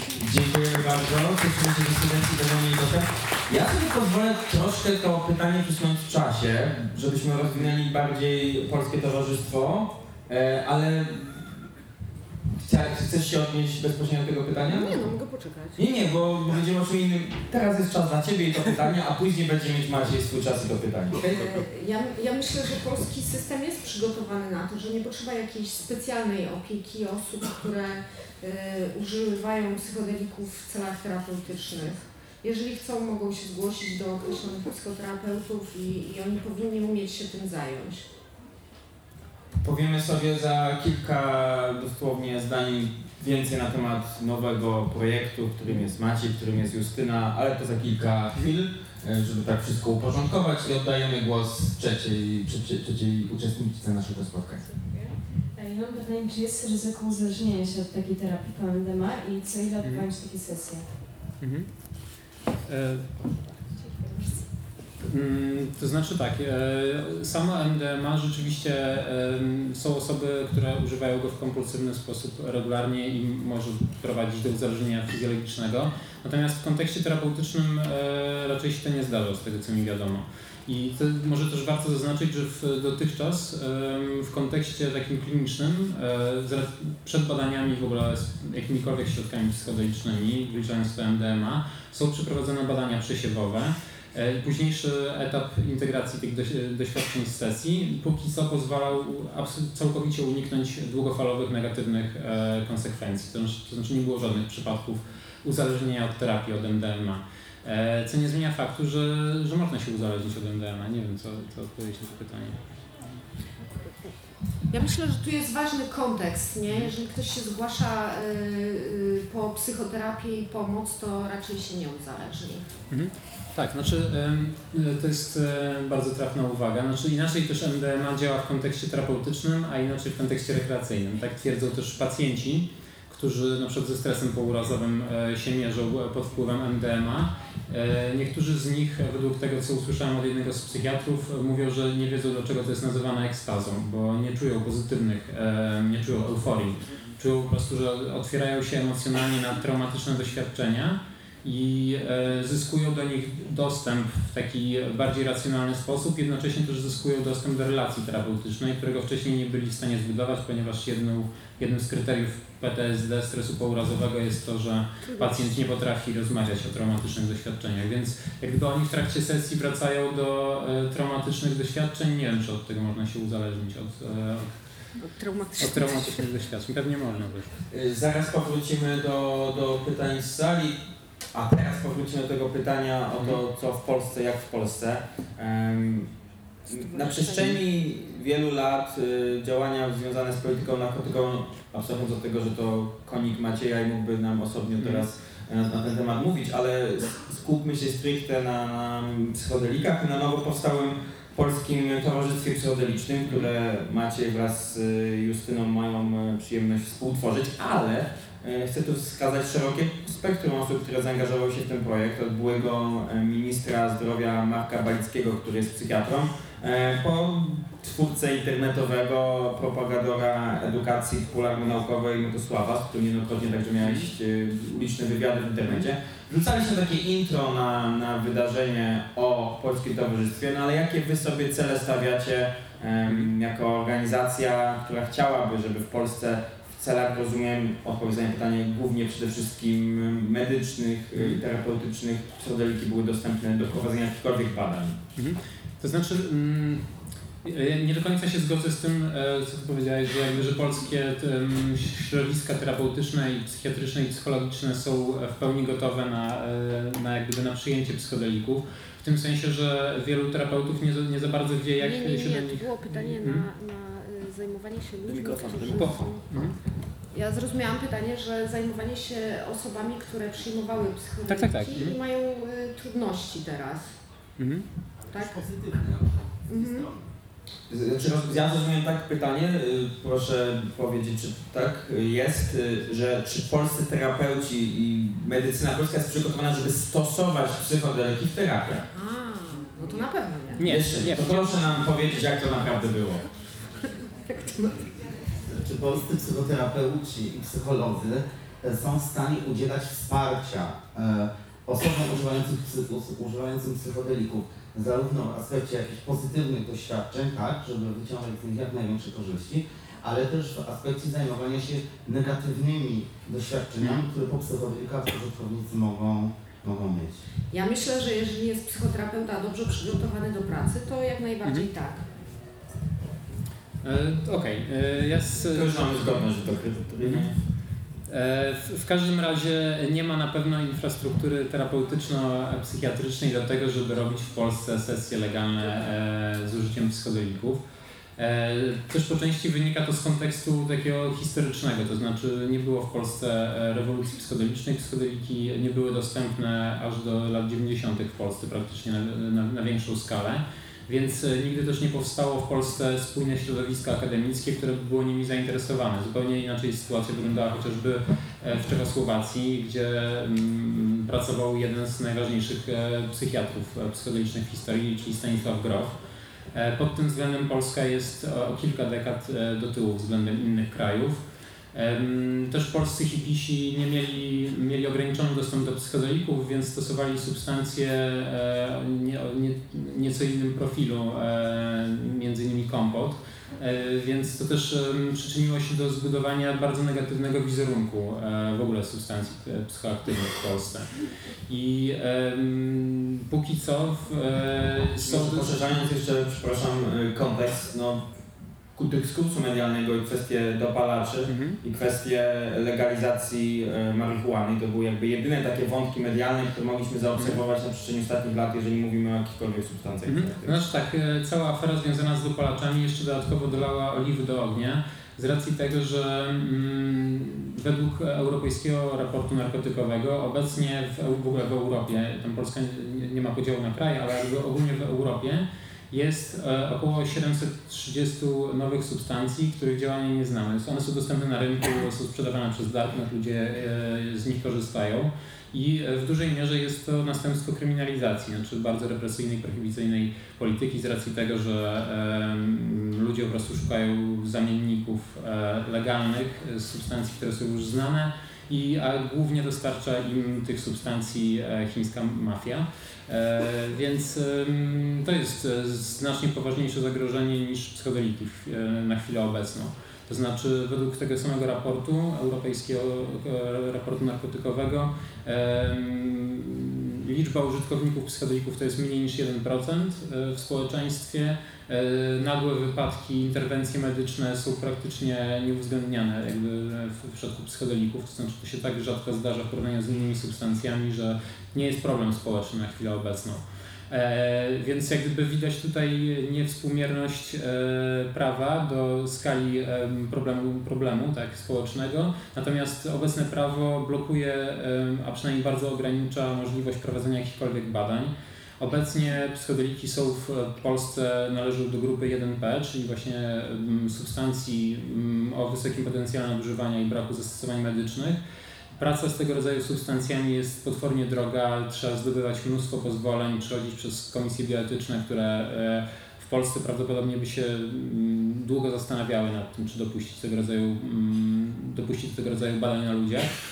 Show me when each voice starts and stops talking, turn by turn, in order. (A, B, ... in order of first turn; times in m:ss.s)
0:00.1-0:11.6 A
0:12.6-0:15.0 A
0:14.7-0:15.8 B
0:15.8-0:21.2 A
0:21.2-0:38.1 B
0:39.6-0:54.7 A
0:54.9-1:00.9 C
0:59.8-1:00.1 D
1:01.4-1:01.7 D
1:02.7-1:03.1 D
1:03.8-1:04.2 C
1:05.0-1:52.6 D
1:54.7-2:02.6 B
1:56.6-1:56.9 D
2:02.9-2:54.5 D
2:45.1-2:45.5 B
2:55.0-2:56.2 B
2:55.6-2:57.6 D
2:57.7-3:00.8 A
3:01.3-3:06.1 A
3:06.7-3:07.6 B
3:06.7-4:05.0 A
3:14.8-3:15.0 D
3:43.8-3:44.1 D
4:01.1-4:01.4 D
4:05.2-4:06.9 D
4:07.4-4:23.5 D
4:21.8-4:26.5 B
4:25.0-4:26.0 A
4:25.7-4:26.6 D
4:27.1-4:34.0 B
4:31.3-4:32.0 D
4:34.4-4:34.7 D
4:35.1-4:36.9 B
4:37.7-4:48.9 A
4:48.9-4:50.6 B
4:50.6-4:51.6 D
4:50.6-4:53.2 A
4:54.3-4:54.9 B
4:55.5-5:17.2 E
5:17.5-5:22.1 B
5:21.4-5:21.7 D
5:23.8-5:26.3 D
5:25.5-5:27.4 A
5:27.0-5:27.3 D
5:28.1-5:37.6 D
5:38.2-6:06.0 D
6:06.5-6:30.9 D
6:31.5-6:35.9 D
6:35.0-6:38.1 A
6:38.8-6:50.6 A
6:41.3-6:41.6 D
6:47.2-6:47.4 D
6:50.1-8:28.2 D
8:28.8-8:43.4 D